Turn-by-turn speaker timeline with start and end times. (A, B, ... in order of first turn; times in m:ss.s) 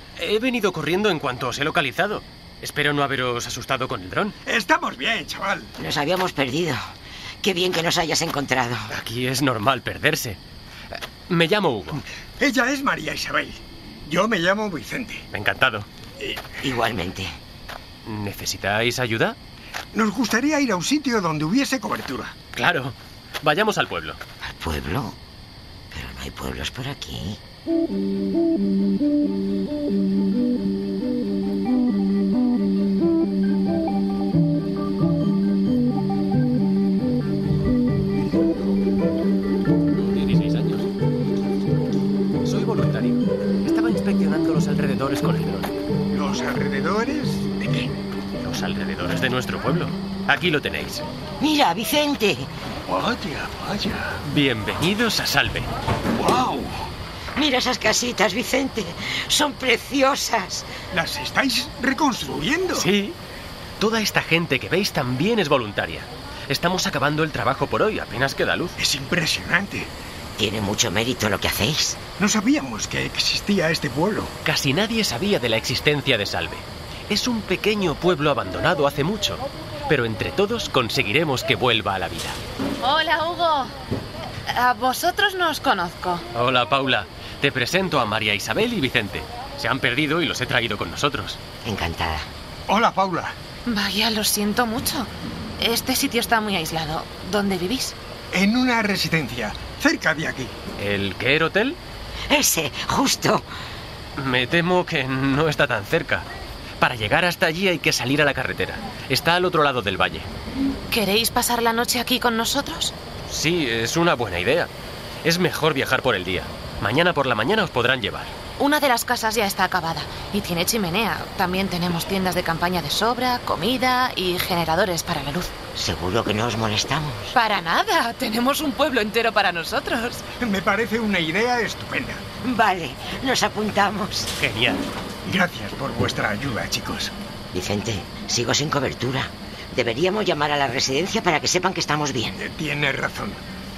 0:00.2-0:04.4 A
0:04.4-0:05.8 B
0:05.8-0:06.8 C
0:07.4-0:08.9 C
0:08.9-0:10.4 A
0:11.3-0:12.0 A
0:12.4-0:15.3 B
0:15.3-0:15.9 A
0:16.6-0:17.4 C
0:18.0-0:19.4 A
0:19.9-0:22.4 B
0:22.6-0:24.2 A
0:24.4-0:25.2 C
0:25.9-0:27.4 C
0:40.0-0:40.9 A
0:42.4-0:45.8 A
0:46.1-0:47.9 B
0:48.4-0:51.1 A
0:51.4-0:52.5 C
0:52.9-0:54.2 B
0:54.2-0:55.7 A
0:56.2-0:56.9 B
0:57.4-1:00.7 C
1:00.9-1:02.9 B
1:02.7-1:03.2 A
1:03.8-1:08.8 A
1:08.8-1:09.9 B
1:10.4-1:12.0 C
1:12.2-1:14.4 B
1:14.4-1:22.4 A
1:22.8-1:23.7 D
1:24.5-1:26.2 D
1:26.3-1:31.4 A
1:31.6-1:32.3 C
1:32.7-1:33.4 B
1:33.7-1:38.0 D
1:38.3-1:40.6 B
1:40.8-1:41.8 A
1:42.3-1:43.5 C
1:44.2-1:46.3 A
1:46.8-1:50.3 A
1:50.9-1:53.0 D
1:53.3-1:54.7 A
1:55.2-1:58.4 A
1:58.6-2:05.6 D
2:05.8-2:07.4 C
2:07.4-2:10.2 D
2:10.4-2:12.3 B
2:12.4-2:14.3 C
2:14.4-2:14.8 A
2:15.2-2:17.1 B
2:17.5-2:22.4 C
2:22.4-2:23.4 B